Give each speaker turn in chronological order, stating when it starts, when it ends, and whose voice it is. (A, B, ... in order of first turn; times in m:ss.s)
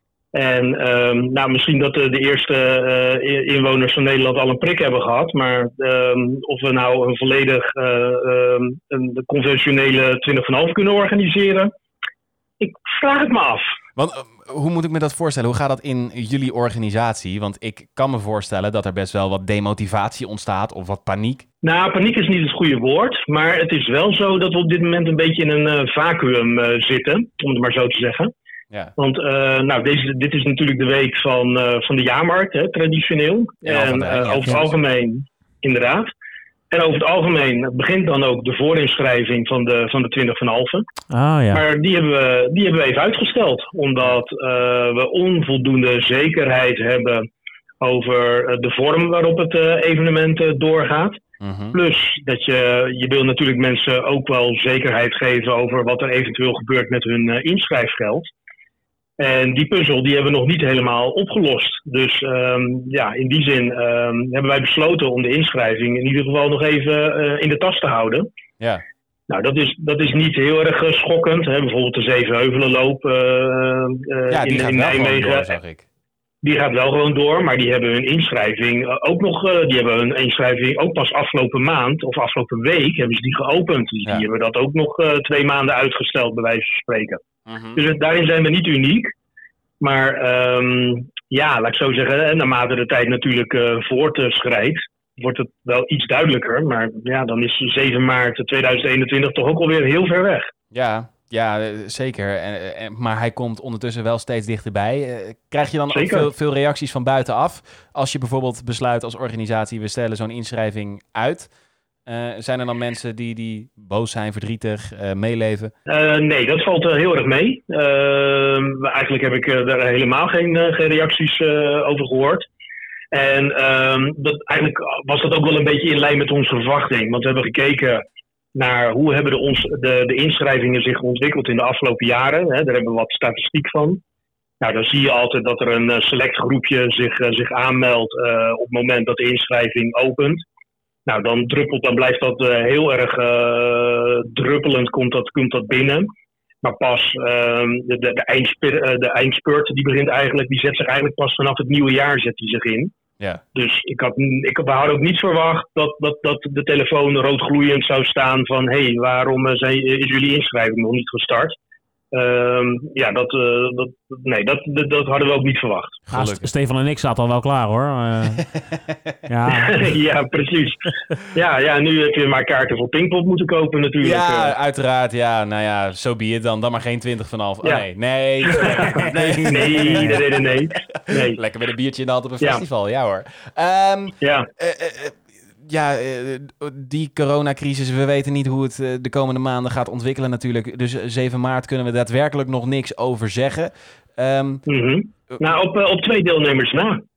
0:00.3-0:11.7 A
0:12.6-0:13.7 A
0:14.0-0:21.4 B
0:21.6-0:28.3 A
0:29.0-0:36.1 A
0:33.6-0:34.8 B
0:36.7-0:40.9 A
0:41.1-0:41.6 C
0:41.5-0:47.3 A
0:47.8-0:51.2 A
0:51.4-0:51.8 B
0:51.7-0:58.3 A
0:59.2-1:08.3 A
1:09.3-1:15.5 A
1:14.3-1:15.8 B
1:16.4-1:27.2 A
1:27.5-1:27.8 B
1:27.8-1:29.1 A
1:29.8-1:40.5 A
1:40.7-1:51.5 B
1:45.9-1:46.3 A
1:52.1-1:55.7 B
1:55.9-2:02.5 A
2:03.1-2:08.0 A
2:08.6-2:14.0 A
2:14.6-2:20.4 A
2:21.1-2:26.1 A
2:26.6-2:32.9 A
2:33.6-2:41.6 A
2:42.1-2:46.0 A
2:46.1-2:46.5 B
2:46.1-2:48.5 C
2:48.4-2:49.2 B
2:49.3-2:49.9 C
2:49.5-2:54.6 A
2:54.0-3:14.6 B
2:58.4-3:01.4 A
2:59.7-3:00.2 C
3:04.2-3:04.5 A
3:14.7-3:17.0 A